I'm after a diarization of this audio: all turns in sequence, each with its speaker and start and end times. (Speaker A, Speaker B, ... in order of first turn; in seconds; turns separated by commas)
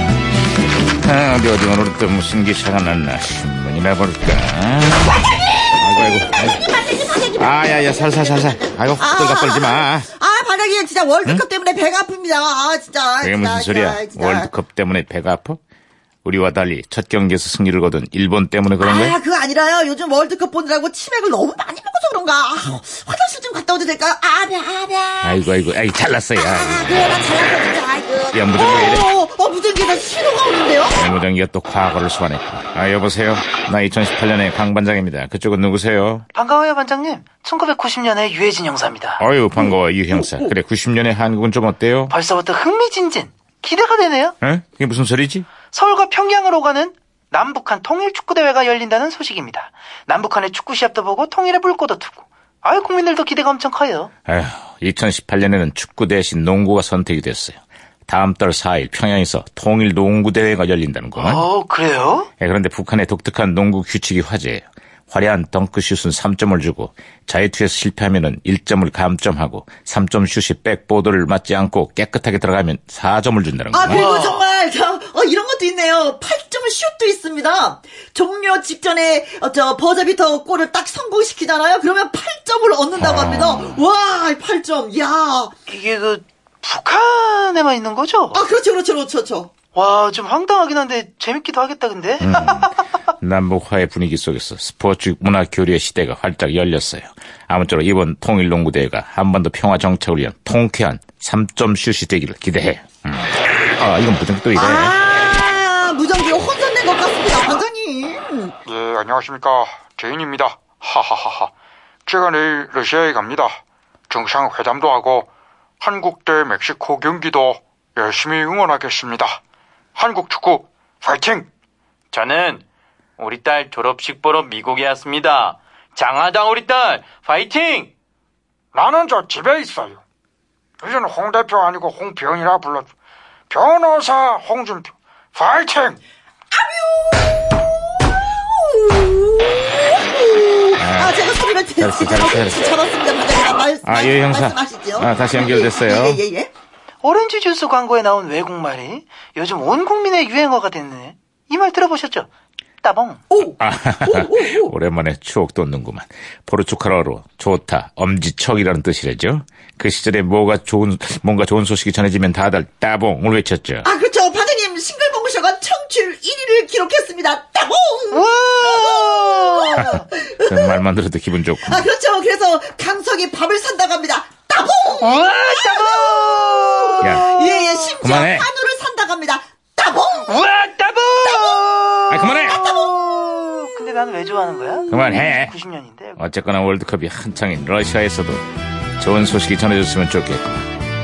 Speaker A: 1.0-5.2, Speaker A: 5.7-6.6, Speaker B: 6.3-14.5, Speaker A: 7.4-10.1, Speaker A: 13.2-15.6, Speaker A: 16.2-19.2, Speaker B: 18.8-25.5, Speaker A: 25.2-27.3, Speaker B: 26.4-31.0, Speaker A: 28.3-29.1, Speaker A: 30.9-36.3, Speaker C: 36.4-39.2, Speaker A: 39.2-42.1, Speaker B: 40.2-40.5, Speaker C: 42.1-44.4, Speaker A: 44.4-45.5, Speaker C: 45.7-54.1, Speaker A: 54.3-61.5, Speaker C: 61.2-62.3, Speaker A: 62.4-74.1, Speaker B: 73.7-85.5, Speaker C: 73.9-74.4, Speaker A: 83.0-83.8, Speaker C: 85.7-88.4, Speaker B: 88.3-89.5, Speaker C: 89.8-92.7, Speaker A: 92.2-105.0, Speaker B: 104.5-108.5, Speaker D: 108.7-111.5, Speaker D: 112.1-113.6, Speaker D: 114.1-115.3, Speaker D: 115.8-119.4, Speaker D: 120.0-121.5, Speaker E: 122.1-122.6, Speaker E: 123.2-127.9, Speaker D: 128.7-130.0, Speaker D: 130.8-132.9, Speaker D: 133.5-136.0, Speaker B: 136.5-137.4, Speaker B: 138.5-146.5, Speaker A: 140.8-141.2, Speaker A: 141.8-142.8, Speaker A: 143.8-146.2, Speaker C: 147.0-152.3, Speaker C: 152.8-153.2, Speaker B: 153.3-154.7, Speaker A: 153.6-163.9, Speaker B: 163.8-170.8, Speaker C: 168.1-170.0, Speaker A: 170.5-171.8, Speaker B: 171.7-180.4, Speaker C: 175.0-177.7, Speaker A: 177.0-177.4, Speaker A: 178.0-178.5, Speaker C: 180.3-186.2, Speaker B: 181.2-181.8, Speaker A: 182.1-182.6, Speaker B: 182.4-183.0, Speaker A: 184.9-185.6, Speaker A: 186.2-188.4, Speaker A: 189.0-190.7